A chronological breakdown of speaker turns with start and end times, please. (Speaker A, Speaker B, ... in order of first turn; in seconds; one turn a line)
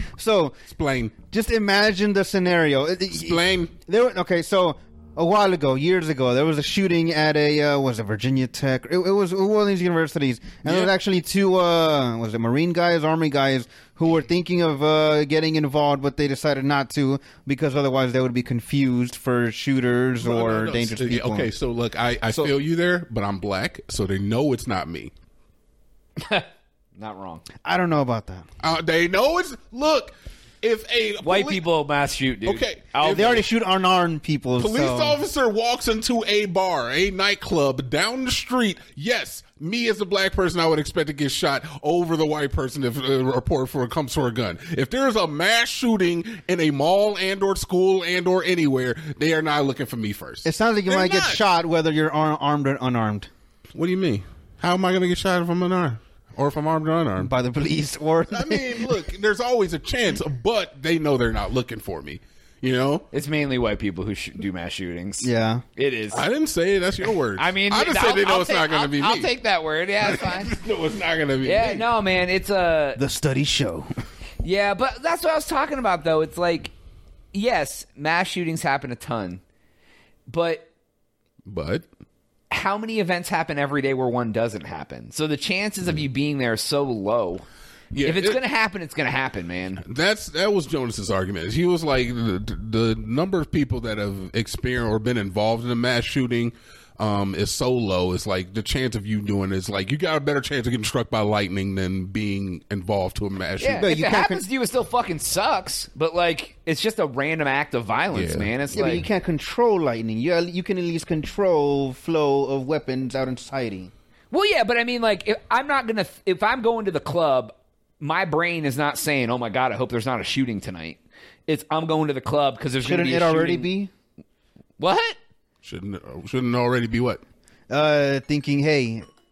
Speaker A: 0.1-0.6
Speaker B: 0.7-1.1
Speaker A: 1.2-21.5
Speaker B: 3.1-3.7
Speaker B: 10.6-10.9
Speaker B: 20.2-25.1
Speaker C: 26.2-27.4
Speaker A: 27.6-28.4
Speaker B: 28.6-31.6
Speaker C: 31.2-33.4
Speaker B: 32.4-33.4
Speaker A: 33.1-35.2
Speaker B: 34.6-51.4
Speaker A: 50.4-53.3
Speaker B: 53.7-57.3
Speaker A: 57.2-59.0
Speaker B: 58.3-63.0
Speaker C: 63.1-66.2
Speaker A: 65.2-65.6
Speaker B: 66.1-69.3
Speaker C: 67.3-70.5
Speaker B: 70.0-71.9
Speaker C: 71.4-73.0
Speaker A: 73.0-73.9
Speaker C: 74.4-76.7
Speaker C: 77.3-79.4
Speaker C: 80.3-80.7
Speaker B: 81.4-81.9
Speaker C: 82.5-87.4
Speaker B: 87.9-88.4
Speaker C: 88.0-89.8
Speaker B: 89.8-103.9
Speaker C: 103.6-109.0
Speaker A: 103.7-104.4
Speaker B: 108.1-108.5
Speaker A: 108.7-113.9
Speaker C: 114.3-123.7
Speaker A: 122.8-123.9
Speaker C: 124.8-125.2
Speaker B: 125.6-127.2
Speaker A: 127.7-129.1